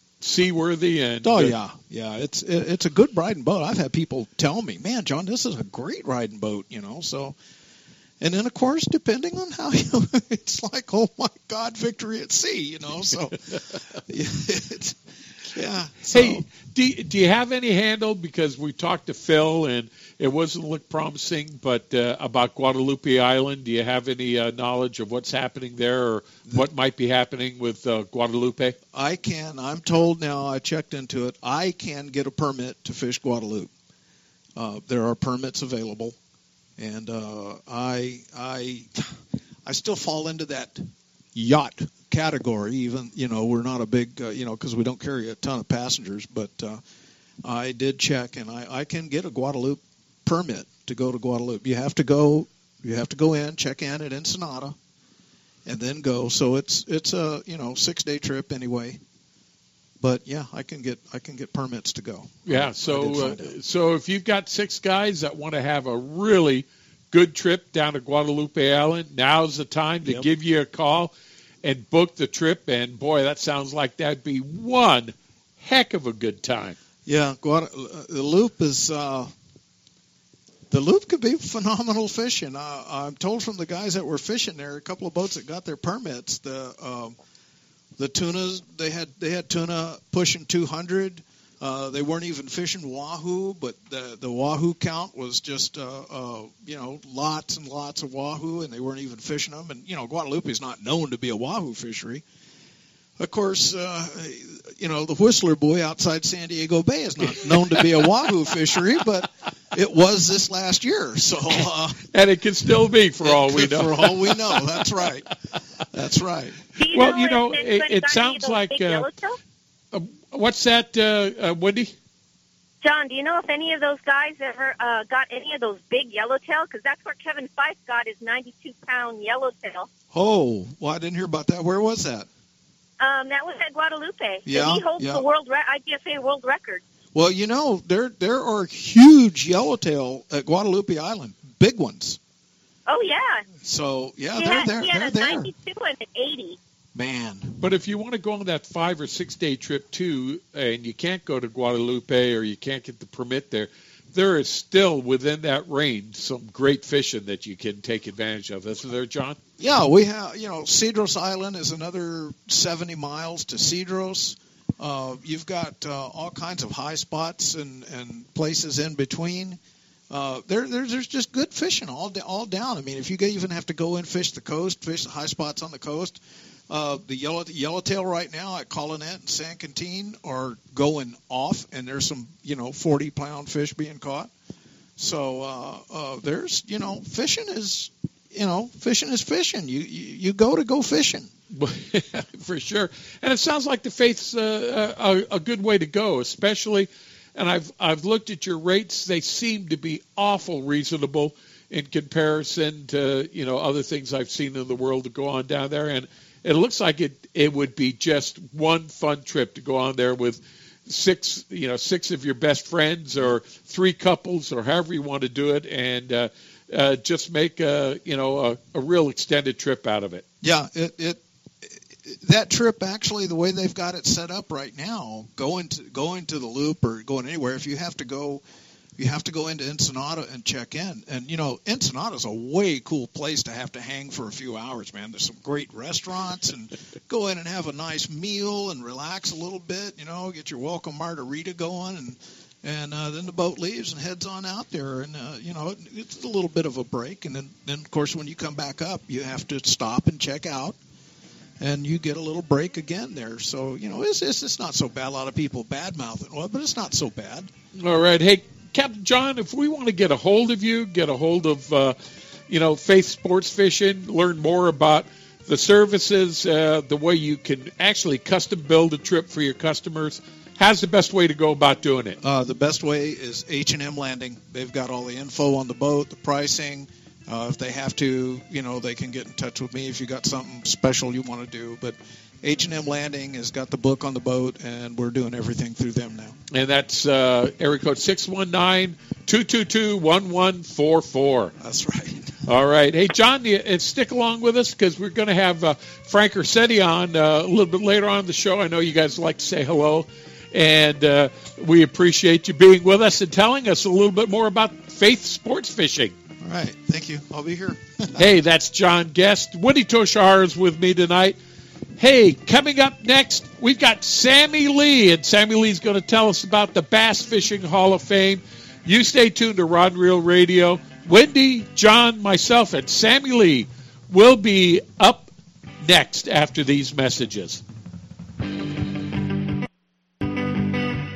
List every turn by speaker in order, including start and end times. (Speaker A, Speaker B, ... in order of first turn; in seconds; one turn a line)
Speaker A: 0.2-1.6
Speaker B: 1.2-7.3
Speaker B: 8.2-13.3
Speaker B: 14.1-15.0
Speaker B: 15.5-16.5
Speaker A: 16.1-28.8
Speaker B: 28.9-33.7
Speaker B: 34.5-36.2
Speaker B: 36.8-39.0
Speaker B: 39.6-46.8
Speaker B: 47.4-54.7
Speaker B: 55.6-59.0
Speaker B: 60.0-63.6
Speaker A: 62.5-76.8
Speaker B: 77.0-79.3
Speaker B: 80.7-87.2
Speaker B: 88.0-102.2
Speaker B: 103.2-112.0
Speaker A: 112.1-114.6
Speaker B: 113.2-115.3
Speaker B: 115.9-116.6
Speaker C: 116.8-119.3
Speaker A: 116.9-119.1
Speaker A: 119.9-121.9
Speaker C: 122.8-129.9
Speaker B: 130.1-132.3
Speaker C: 133.0-136.8
Speaker B: 134.4-135.2
Speaker B: 137.1-142.2
Speaker C: 142.9-143.4
Speaker B: 143.6-145.5
Speaker C: 144.4-146.6
Speaker B: 146.9-147.6
Speaker A: 147.6-159.4
Speaker B: 159.6-169.6
Speaker B: 170.1-184.3
Speaker B: 185.0-191.3
Speaker A: 191.5-220.2
Speaker B: 220.4-221.2
Speaker B: 222.1-228.4
Speaker B: 229.0-250.8
Speaker B: 251.6-257.5
Speaker A: 257.8-261.9
Speaker A: 262.5-272.2
Speaker B: 272.2-286.3
Speaker A: 286.5-291.5
Speaker B: 291.6-292.3
Speaker A: 292.4-306.1
Speaker B: 306.4-308.2
Speaker A: 308.2-311.4
Speaker A: 312.0-327.6